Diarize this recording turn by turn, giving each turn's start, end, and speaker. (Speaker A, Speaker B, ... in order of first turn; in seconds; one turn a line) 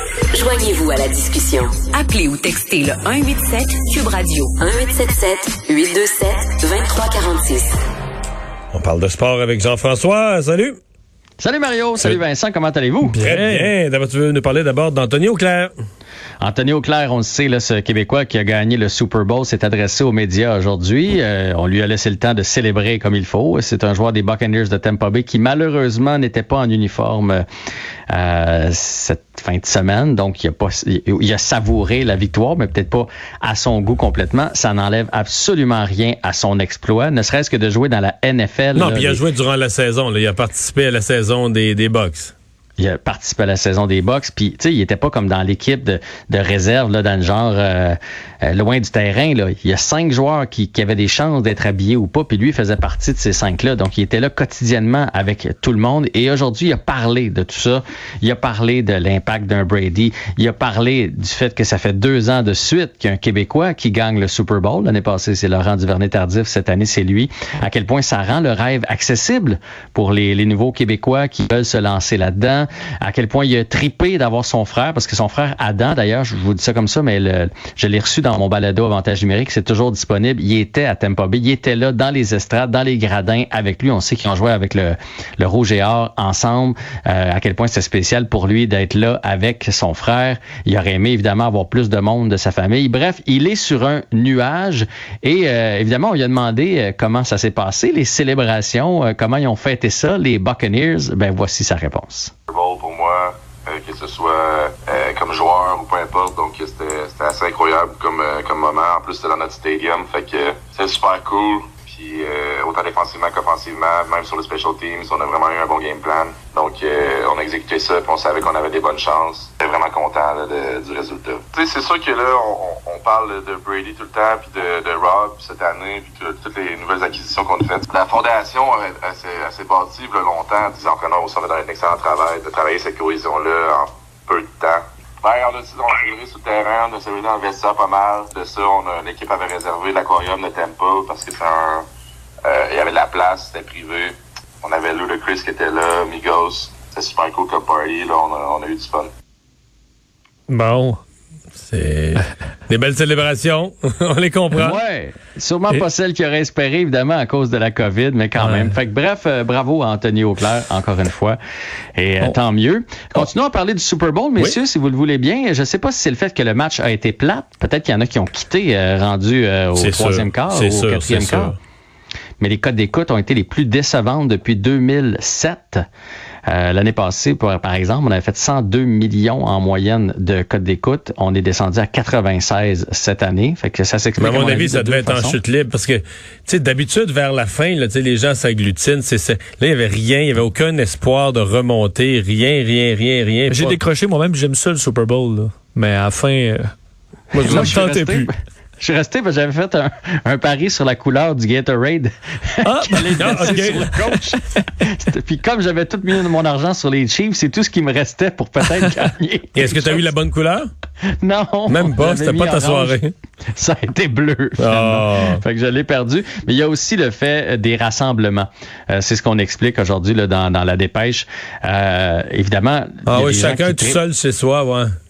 Speaker A: 0.3-7.7
Speaker B: 8.7-10.8
Speaker C: 11.4-13.2
Speaker D: 13.0-13.7
Speaker B: 13.2-15.7
Speaker C: 16.4-27.4
Speaker C: 28.1-39.2
Speaker B: 38.7-42.3
Speaker C: 42.8-102.3
Speaker E: 102.5-141.8
Speaker E: 142.4-149.1
Speaker D: 150.5-151.0
Speaker B: 151.6-154.8
Speaker C: 154.5-161.4
Speaker D: 158.4-158.7
Speaker C: 161.9-171.5
Speaker B: 169.8-171.6
Speaker C: 172.4-175.8
Speaker C: 176.5-185.4
Speaker B: 184.2-193.8
Speaker D: 193.5-196.7
Speaker B: 197.3-197.7
Speaker D: 197.3-198.3
Speaker C: 197.4-210.1
Speaker D: 202.6-204.2
Speaker B: 203.2-203.9
Speaker B: 209.6-210.7
Speaker C: 211.1-213.0
Speaker B: 211.7-213.1
Speaker C: 213.5-224.0
Speaker B: 214.6-215.4
Speaker B: 223.1-224.9